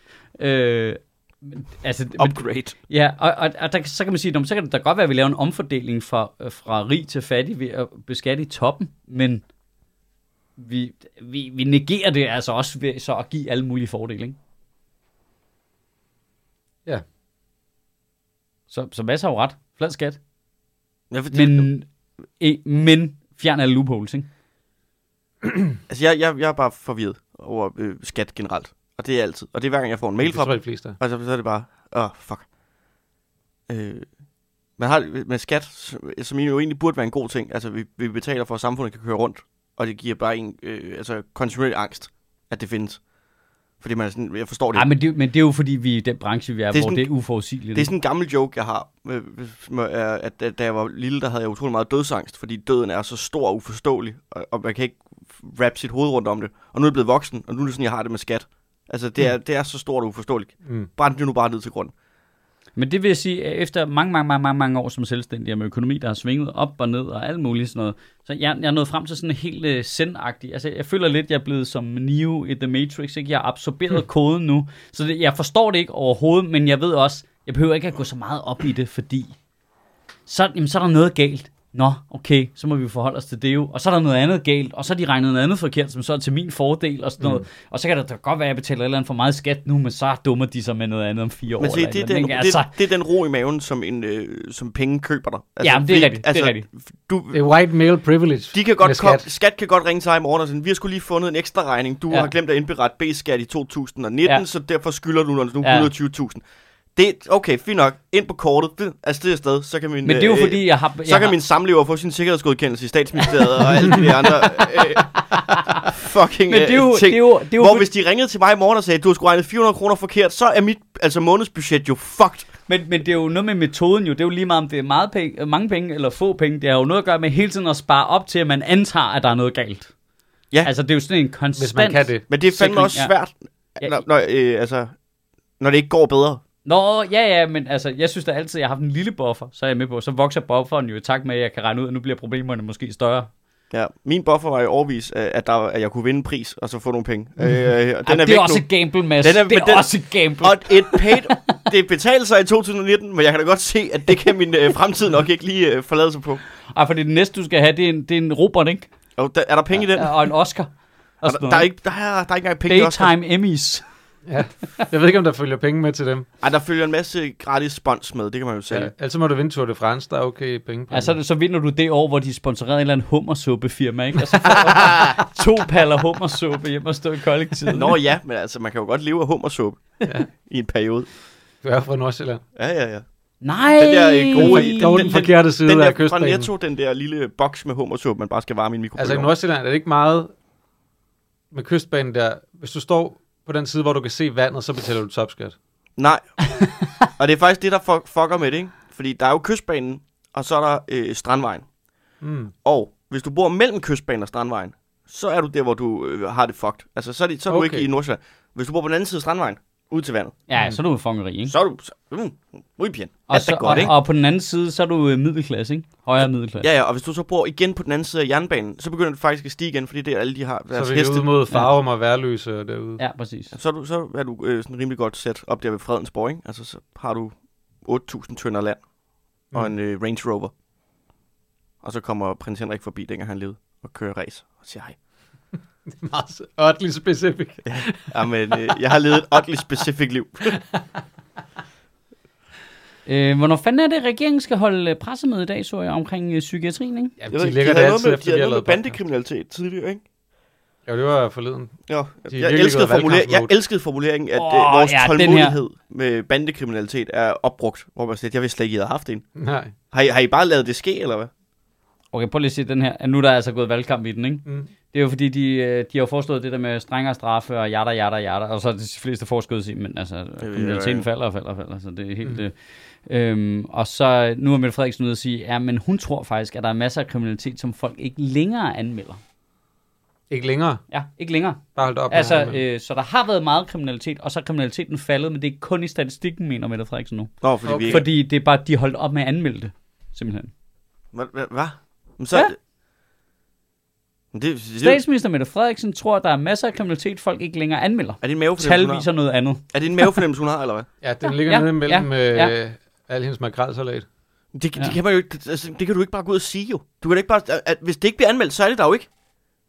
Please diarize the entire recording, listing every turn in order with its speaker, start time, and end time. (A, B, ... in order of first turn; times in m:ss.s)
0:00.4-0:09.4 A
0:02.2-0:02.7 B
0:10.6-0:14.4 A
0:18.7-0:20.2 A
0:21.1-0:21.7 B
0:21.3-0:21.9 A
0:22.4-0:24.3 A
0:25.9-0:32.4 B
0:30.2-0:31.0 C
0:33.7-0:34.1 B
0:34.8-0:43.0 B
0:43.8-0:44.9 B
0:44.7-0:47.9 A
0:46.7-0:47.1 B
0:47.7-1:01.9 B
1:02.8-1:19.3 A
1:20.3-1:32.7 A
1:31.6-1:37.4 B
1:35.6-1:36.6 A
1:37.3-1:39.2 C
1:38.5-1:46.4 B
1:45.6-1:45.9 A
1:46.9-1:55.2 B
1:50.0-1:51.4 A
1:53.5-1:55.9 A
1:55.8-2:02.5 B
1:56.5-1:57.9 A
2:02.7-2:09.9 A
2:10.6-2:13.1 A
2:11.6-2:12.2 C
2:12.3-2:14.9 B
2:15.6-2:16.4 B
2:16.6-2:23.3 A
2:23.7-2:28.6 B
2:28.0-2:31.4 A
2:29.2-2:36.4 B
2:36.7-2:38.9 A
2:39.2-2:40.1 B
2:39.9-2:41.7 A
2:41.2-2:43.1 B
2:42.6-2:43.8 A
2:44.3-2:46.3 C
2:46.4-2:48.9 B
2:48.7-2:51.2 C
2:50.9-2:58.0 A
2:57.7-3:01.1 B
3:01.6-3:02.4 C
3:02.6-3:03.0 B
3:03.4-3:05.2 A
3:03.7-3:09.3 B
3:04.3-3:06.5 C
3:09.0-3:10.3 C
3:11.5-3:15.6 C
3:16.0-3:16.2 B
3:17.2-3:21.6 B
3:22.2-3:22.5 C
3:22.6-3:30.4 B
3:27.5-3:27.9 C
3:30.5-3:31.5 A
3:31.5-3:33.9 B
3:33.3-3:36.7 A
3:36.6-3:41.3 B
3:40.7-3:43.0 C
3:43.0-3:43.5 A
3:43.5-3:48.8 B
3:49.5-3:50.5 B
3:51.8-3:55.0 B
3:55.9-3:58.1 C
3:57.6-4:00.6 B
4:03.0-4:07.1 A
4:07.2-4:09.0 C
4:07.3-4:10.0 B
4:10.8-4:11.8 C
4:11.9-4:19.2 B
4:12.3-4:13.5 C
4:14.3-4:15.6 A
4:19.4-4:19.7 C
4:19.9-4:21.3 B
4:22.1-4:32.5 A
4:30.4-4:31.0 B
4:33.0-4:39.2 A
4:40.3-4:40.8 C
4:40.9-4:47.3 A
4:41.8-4:42.6 C
4:47.4-4:48.0 B
4:47.6-4:48.0 C
4:47.8-4:50.5 A
4:51.1-4:52.5 B
4:54.3-4:55.0 B
4:54.8-5:00.2 A
4:58.2-4:59.1 B
4:59.7-5:00.9 B
5:01.0-5:04.0 C
5:01.2-5:02.5 A
5:04.5-5:09.1 B